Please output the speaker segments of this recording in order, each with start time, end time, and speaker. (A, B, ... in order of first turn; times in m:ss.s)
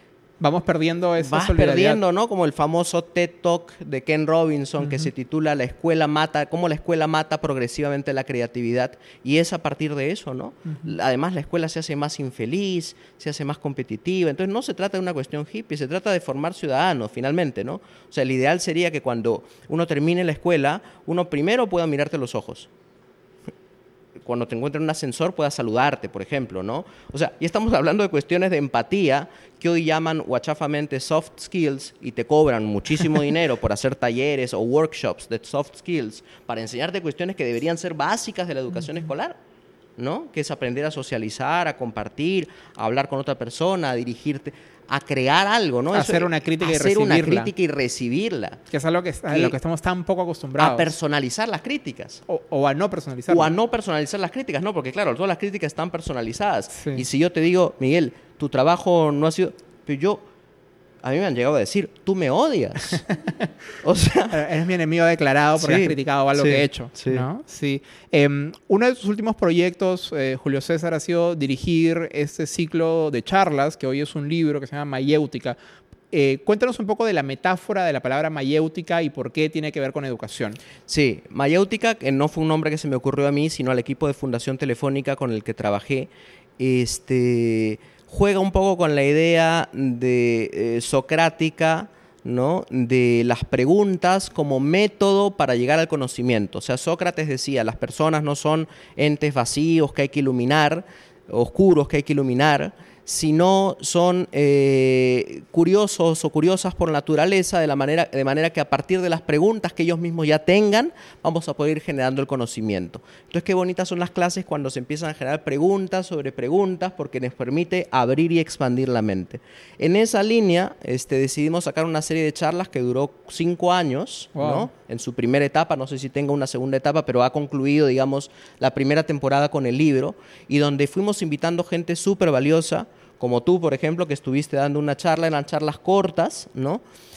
0:00.4-0:02.0 A
0:01.2-0:22.7 B
0:24.2-0:39.4 B
0:40.0-0:48.6 B
0:45.9-0:47.5 A
0:48.7-0:50.9 A
0:49.3-0:49.6 B
0:50.6-0:52.2 B
0:52.3-0:53.5 A
0:53.3-1:00.2 B
1:01.0-1:03.0 B
1:03.8-1:04.4 B
1:04.3-1:15.6 A
1:05.6-1:07.2 B
1:16.1-1:20.6 A
1:20.9-2:16.8 B
2:04.4-2:04.7 A